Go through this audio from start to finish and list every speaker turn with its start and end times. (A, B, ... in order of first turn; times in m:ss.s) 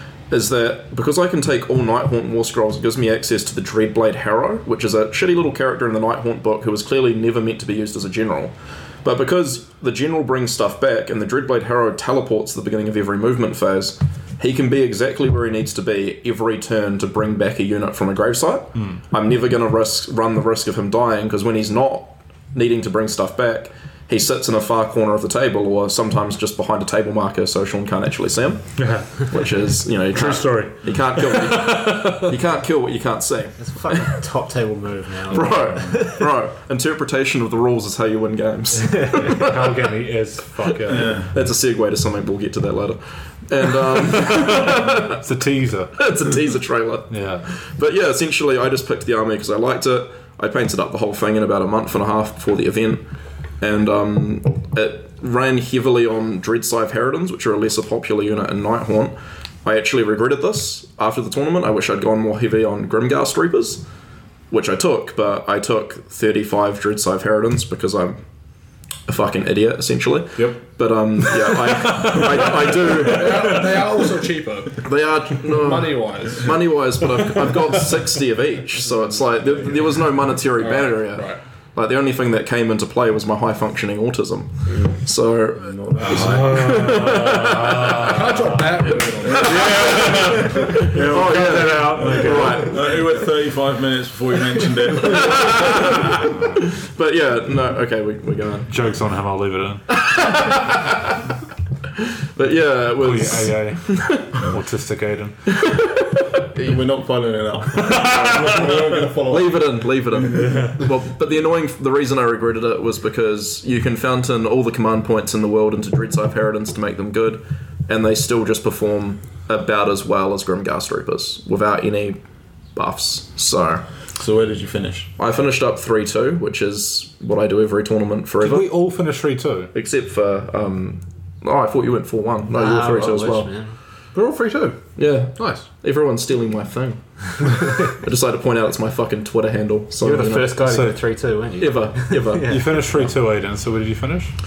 0:00.3-0:34.1 A
0:18.8-0:19.0 B
0:28.8-0:29.5 B
0:30.1-0:32.3 B
0:33.6-0:36.2 C
0:35.3-0:39.8 A
0:35.4-0:36.0 D
0:38.9-0:39.2 C
0:39.2-0:41.3 B
0:40.9-0:41.3 D
0:41.1-0:45.2 A
0:44.3-0:46.1 B
0:46.0-0:53.0 A
0:47.1-0:47.5 B
0:53.6-1:03.8 A
1:04.5-1:08.2 A
1:09.1-1:13.6 A
1:12.8-1:14.9 E
1:14.8-1:28.1 A
1:15.5-1:16.6 E
1:19.4-1:19.8 E
1:20.6-1:21.4 E
1:25.6-1:26.9 D
1:26.1-1:32.8 B
1:27.9-1:30.5 E
1:29.4-1:30.9 D
1:29.4-1:30.1 A
1:30.9-1:33.0 A
1:31.8-1:36.5 D
1:35.0-1:35.9 A
1:36.8-1:38.7 A
1:38.7-1:39.8 B
1:40.0-1:41.0 A
1:42.2-1:44.5 A
1:43.0-1:45.5 B
1:45.6-1:46.8 A
1:46.6-1:50.7 D
1:47.8-1:48.7 B
1:48.0-2:02.2 A
2:02.7-2:03.9 A
2:04.2-2:05.1 D
2:05.2-2:08.8 A
2:08.4-2:09.7 B
2:09.7-2:13.5 A
2:12.5-2:13.8 C
2:14.1-2:14.8 E
2:15.0-2:20.6 A
2:15.4-2:15.7 E
2:20.0-2:23.1 C
2:20.6-2:21.1 B
2:21.6-2:22.7 A
2:22.5-2:24.3 B